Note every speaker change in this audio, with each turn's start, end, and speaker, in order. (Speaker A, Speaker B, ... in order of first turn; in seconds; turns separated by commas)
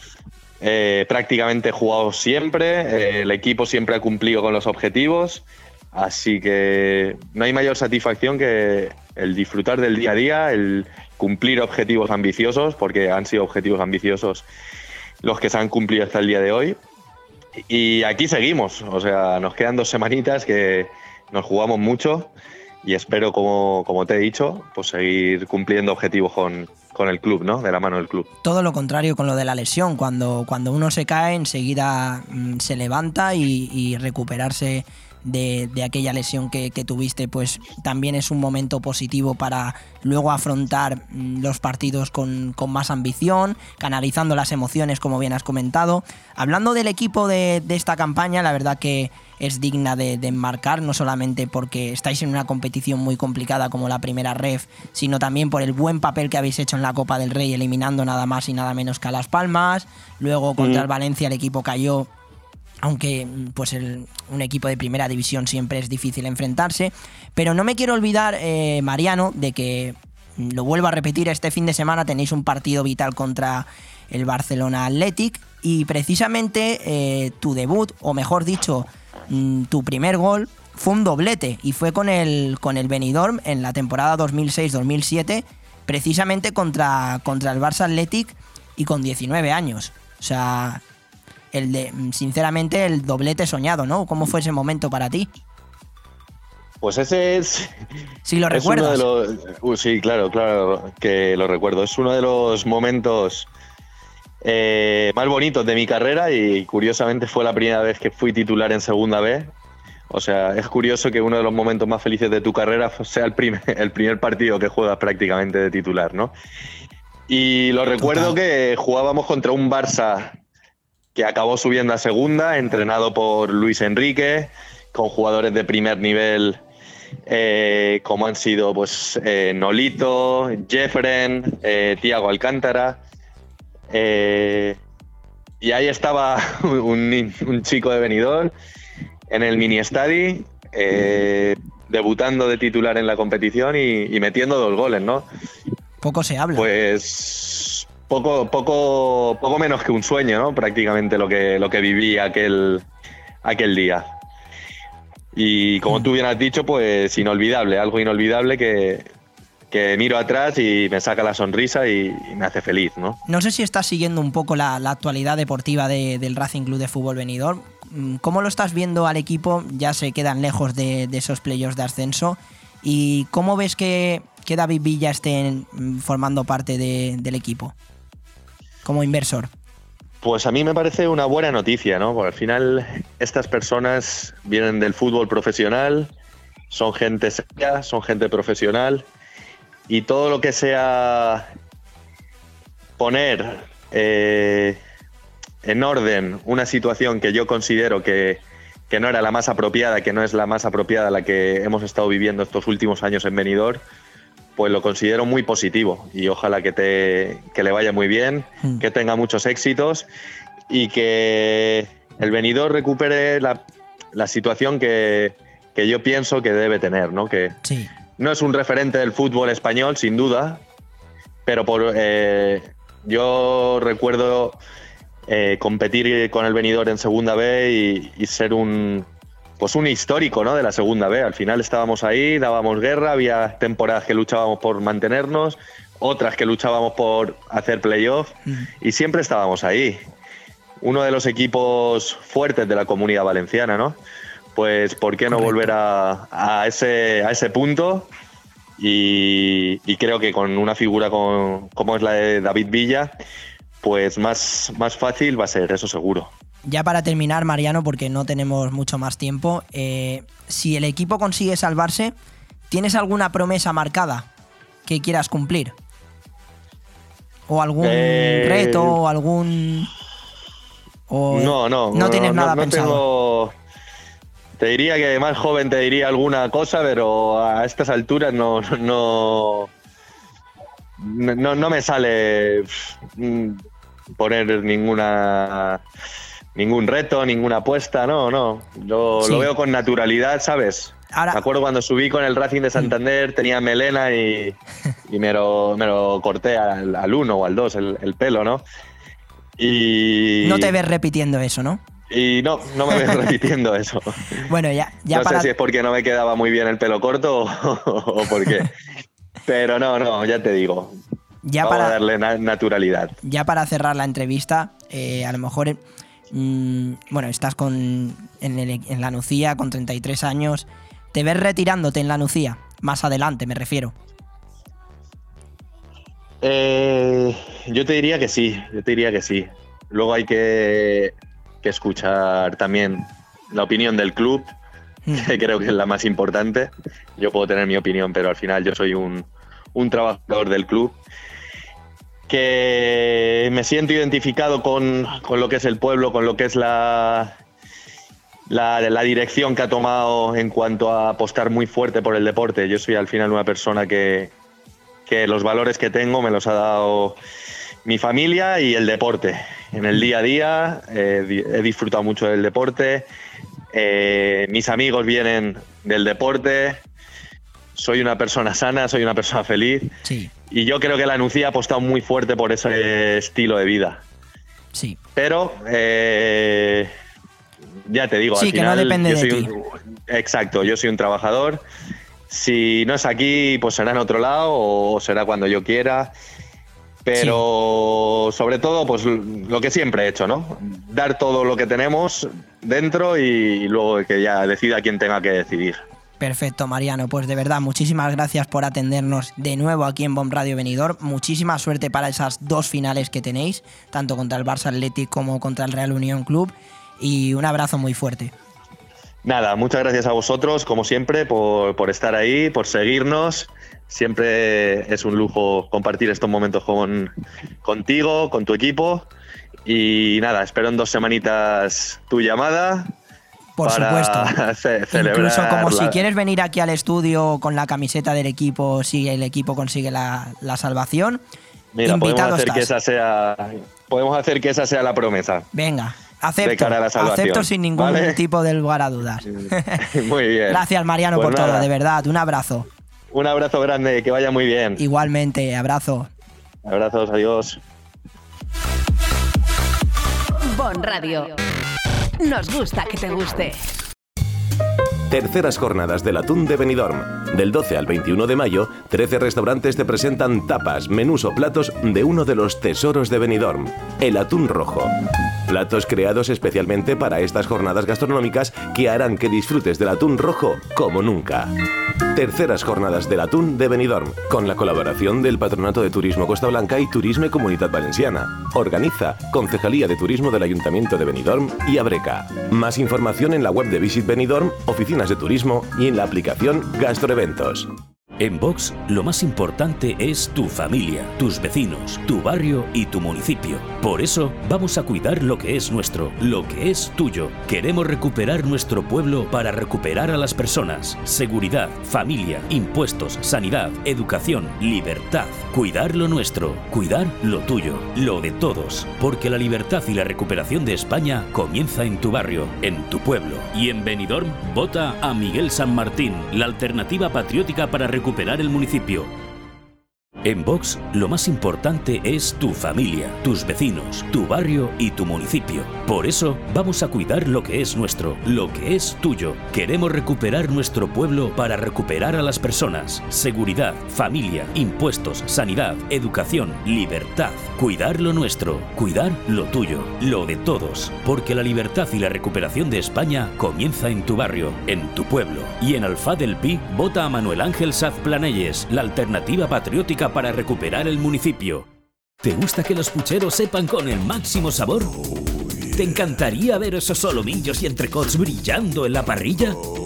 Speaker A: 0.6-14.4, Speaker A: 15.2-16.8, Speaker A: 17.7-22.3, Speaker A: 22.8-28.3, Speaker B: 28.4-62.1, Speaker A: 60.6-60.8, Speaker B: 62.8-90.8, Speaker B: 91.5-95.3, Speaker A: 96.8-97.7, Speaker B: 98.2-99.0, Speaker A: 98.5-103.5, Speaker A: 104.4-109.5, Speaker A: 110.1-116.3, Speaker A: 117.3-120.3, Speaker B: 118.0-118.3, Speaker A: 121.2-126.6, Speaker A: 127.3-133.0, Speaker A: 133.9-134.8, Speaker A: 135.6-138.5, Speaker A: 139.3-145.2, Speaker B: 146.0-146.7, Speaker A: 146.5-152.8, Speaker A: 153.4-154.1, Speaker A: 155.3-159.1, Speaker A: 159.7-163.2, Speaker B: 163.2-177.7, Speaker B: 178.8-179.5, Speaker A: 180.2-186.1, Speaker A: 186.7-189.1, Speaker A: 189.9-191.5, Speaker A: 193.0-194.8, Speaker A: 195.6-203.8, Speaker A: 204.6-210.0, Speaker A: 210.7-213.6, Speaker A: 214.1-217.6, Speaker B: 217.6-217.9, Speaker A: 218.2-220.6, Speaker A: 221.4-224.6, Speaker A: 225.3-229.1, Speaker A: 229.6-240.0, Speaker A: 240.8-244.0, Speaker A: 244.5-248.1, Speaker B: 245.3-245.7, Speaker A: 248.8-253.1, Speaker A: 253.8-256.3, Speaker B: 256.6-262.1, Speaker B: 262.7-264.3, Speaker B: 264.8-265.7, Speaker B: 267.5-269.9, Speaker A: 267.8-268.9, Speaker B: 271.1-273.0, Speaker A: 271.3-273.5, Speaker A: 274.6-279.7, Speaker A: 281.0-283.6, Speaker A: 284.2-285.8, Speaker A: 286.6-294.6, Speaker B: 289.2-289.5, Speaker B: 291.1-291.4, Speaker A: 295.1-298.6, Speaker A: 299.6-300.7, Speaker B: 300.4-301.8, Speaker A: 302.1-304.2, Speaker B: 304.5-305.5, Speaker A: 305.1-308.7, Speaker A: 309.4-310.9, Speaker B: 311.4-312.0, Speaker A: 311.6-313.1, Speaker B: 313.2-315.8, Speaker B: 316.3-323.9, Speaker A: 326.4-334.5, Speaker A: 335.1-341.0, Speaker A: 342.3-347.3, Speaker A: 348.5-354.3, Speaker A: 355.1-357.2, Speaker A: 357.8-363.1, Speaker A: 363.7-366.8, Speaker A: 367.7-369.9, Speaker B: 370.0-370.3, Speaker A: 370.5-374.0, Speaker A: 375.1-376.9, Speaker A: 377.9-381.6, Speaker B: 378.3-379.5, Speaker A: 382.3-386.1, Speaker A: 387.0-395.8, Speaker B: 387.2-387.4, Speaker B: 396.2-408.3, Speaker A: 409.2-417.1, Speaker A: 417.6-419.1, Speaker A: 419.6-422.9, Speaker B: 423.6-424.3, Speaker A: 423.6-426.0, Speaker B: 424.9-431.2, Speaker A: 431.7-435.5, Speaker B: 431.8-432.7, Speaker B: 435.5-439.8, Speaker A: 436.4-438.1, Speaker A: 439.9-440.6, Speaker B: 440.5-442.7, Speaker A: 441.1-441.6, Speaker A: 443.1-444.8, Speaker B: 444.8-446.1, Speaker A: 446.6-447.6, Speaker C: 450.5-451.4, Speaker C: 452.2-453.6, Speaker D: 455.1-464.9, Speaker D: 465.5-471.5, Speaker D: 472.1-487.7, Speaker E: 488.2-519.1, Speaker E: 520.2-551.6, Speaker E: 552.2-555.0, Speaker E: 555.7-559.6